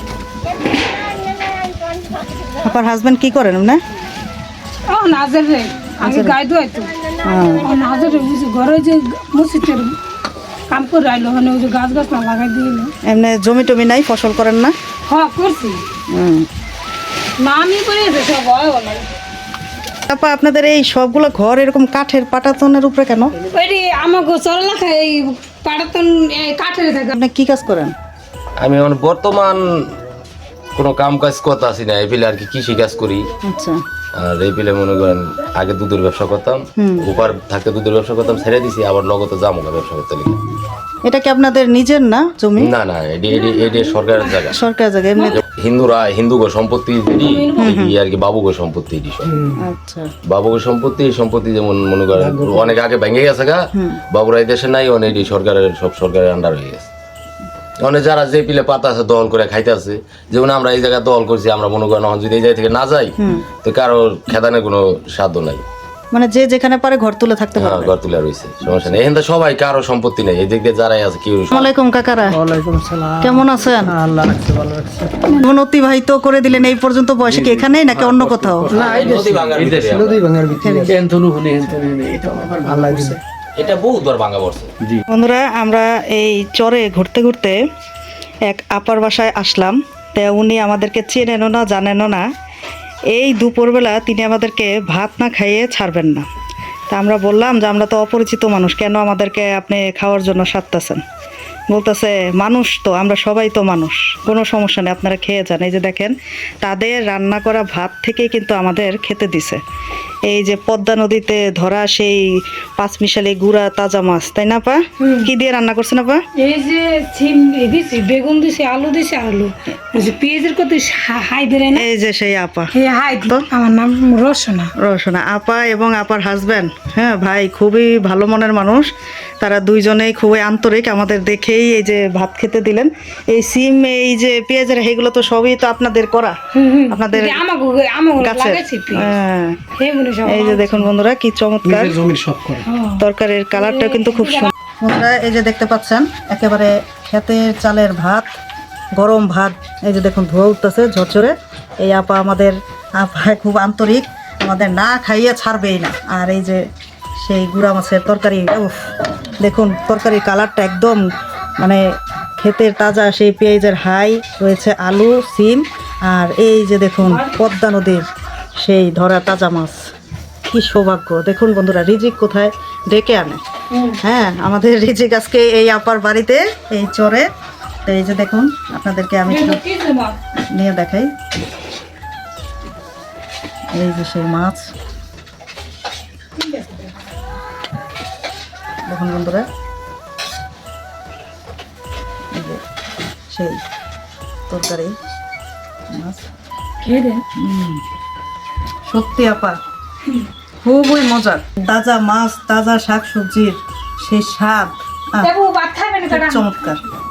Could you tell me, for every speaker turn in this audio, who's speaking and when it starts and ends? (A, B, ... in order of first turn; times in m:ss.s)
0:02.6-0:03.8 A
0:04.9-0:06.9 B
0:06.0-0:06.3 A
0:07.2-0:07.6 A
0:07.6-0:09.9 B
0:10.7-0:12.9 B
0:13.1-0:14.7 A
0:15.1-0:15.8 B
0:16.1-0:16.4 A
0:17.4-0:19.0 B
0:20.1-0:23.3 A
0:23.5-0:27.1 B
0:27.1-0:27.9 A
0:28.6-0:29.8 C
0:30.8-0:33.3 C
0:33.4-0:33.8 A
0:34.2-0:40.4 C
0:36.8-0:37.1 A
0:41.0-0:42.7 A
0:42.6-0:44.6 C
0:43.3-0:44.4 B
0:44.5-0:45.4 A
0:45.3-0:49.3 C
0:47.1-0:47.8 B
0:47.6-0:47.9 A
0:49.6-0:50.1 A
0:50.3-0:56.9 C
0:52.2-0:52.7 D
0:57.8-1:05.6 C
1:06.1-1:07.9 A
1:07.6-1:11.7 C
1:11.5-1:12.4 A
1:12.4-1:13.0 D
1:13.2-1:14.1 A
1:14.0-1:15.1 D
1:15.2-1:15.5 B
1:15.4-1:18.8 A
1:17.2-1:23.2 D
1:18.7-1:20.3 C
1:20.5-1:21.0 A
1:23.6-1:24.7 C
1:25.1-1:27.6 A
1:28.4-1:32.2 A
1:33.1-1:36.3 A
1:36.9-1:41.0 A
1:41.7-1:49.6 A
1:50.3-1:56.2 A
1:55.0-1:55.3 B
1:56.4-2:01.8 B
2:01.7-2:02.7 A
2:02.7-2:04.7 B
2:04.8-2:08.9 A
2:09.4-2:16.4 A
2:16.5-2:19.1 B
2:16.9-2:17.4 A
2:18.2-2:19.6 A
2:19.8-2:20.9 B
2:20.2-2:22.0 A
2:21.6-2:22.6 D
2:22.6-2:24.5 B
2:23.0-2:28.3 A
2:28.9-2:36.7 A
2:37.2-2:41.0 A
2:42.4-2:48.1 A
2:47.0-2:47.4 B
2:48.6-2:49.8 A
2:50.4-2:53.4 A
2:53.7-2:54.0 B
2:54.0-2:57.3 A
2:57.8-2:59.6 A
2:59.3-3:00.2 B
3:00.5-3:01.1 A
3:03.7-3:04.7 A
3:06.4-3:06.8 B
3:08.9-3:09.4 A
3:12.3-3:12.6 A
3:13.3-3:13.6 A
3:14.5-3:15.0 A
3:15.9-3:16.3 A
3:16.8-3:17.2 B
3:17.4-3:17.8 A
3:18.9-3:19.6 A
3:20.6-3:25.3 A
3:25.2-3:26.7 B
3:26.1-3:26.8 A